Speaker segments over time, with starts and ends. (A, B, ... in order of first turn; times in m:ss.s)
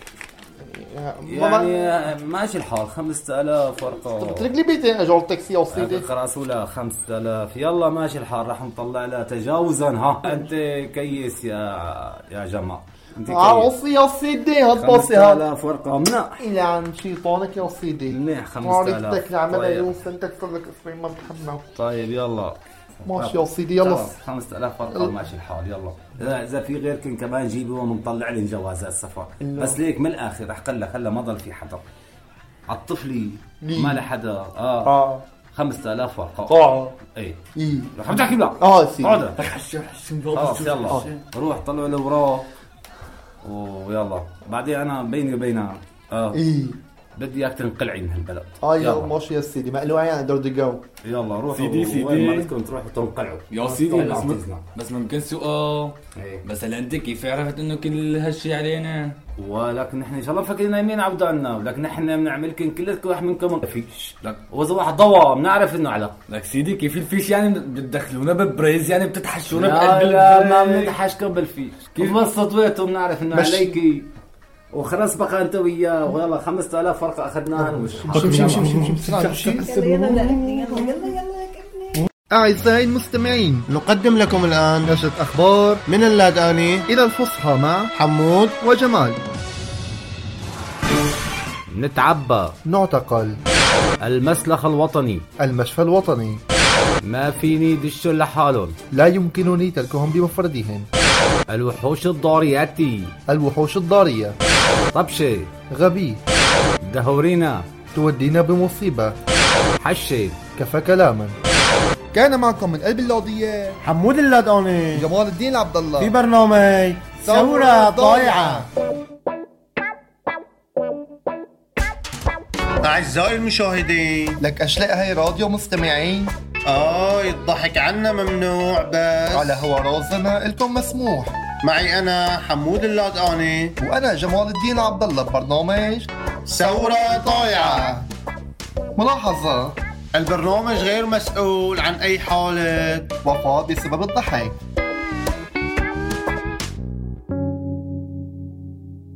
0:00.6-0:02.1 A
0:01.2-0:04.5 B
0:04.2-0:06.0 A
0:05.7-0:13.7 B
0:13.3-0:15.4 A
0:14.8-0:16.4 B
0:16.4-0:21.6 A
0:18.1-0:20.0 B
0:21.8-0:31.9 B
0:23.0-0:24.1 A
0:24.9-0:25.1 A
0:29.4-0:29.8 A
0:32.7-0:34.9 B
0:33.6-0:34.0 A
0:34.8-0:35.2 A
0:35.5-0:36.6 B
0:36.5-0:36.9 C
0:37.6-0:39.2 A
0:37.9-0:39.4 B
0:39.4-0:41.2 C
0:40.3-0:42.5 B
0:43.4-0:46.4 B
0:46.3-0:46.8 A
0:47.1-0:49.1 B
0:48.6-0:50.8 A
0:51.0-0:54.6 B
0:51.5-0:52.5 C
0:53.5-0:59.2 C
0:56.1-0:56.4 B
0:59.4-1:06.1 B
1:06.3-1:10.9 C
1:09.5-1:14.1 B
1:13.3-1:13.8 A
1:14.7-1:18.8 B
1:17.5-1:20.4 A
1:18.1-1:19.7 C
1:19.6-1:22.0 D
1:22.3-1:23.7 A
1:23.7-1:24.9 E
1:24.8-1:25.8 A
1:25.9-1:26.9 E
1:26.9-1:27.9 A
1:27.9-1:28.5 E
1:28.5-1:29.2 A
1:31.7-1:32.6 B
1:32.6-1:33.4 A
1:34.0-1:35.2 B
1:35.4-1:36.4 A
1:37.0-1:38.8 B
1:38.9-1:40.9 A
1:41.5-1:43.1 B
1:43.3-1:44.4 A
1:44.9-1:45.5 B
1:45.7-1:46.2 A
1:46.8-1:47.7 B
1:47.9-1:49.2 A
1:49.8-1:50.4 B
1:50.6-1:51.4 A
1:52.1-1:53.8 A
1:53.8-1:55.1 E
1:54.9-1:56.1 A
1:56.0-1:58.6 E
1:57.2-1:58.7 A
2:02.8-2:04.4 E
2:04.4-2:06.3 A
2:06.7-2:09.5 E
2:09.3-2:11.3 A
2:11.6-2:13.7 E
2:13.8-2:16.1 A
2:16.5-2:17.7 E
2:17.5-2:18.0 A
2:19.0-2:19.8 A
2:20.1-2:23.1 E
2:23.2-2:24.5 A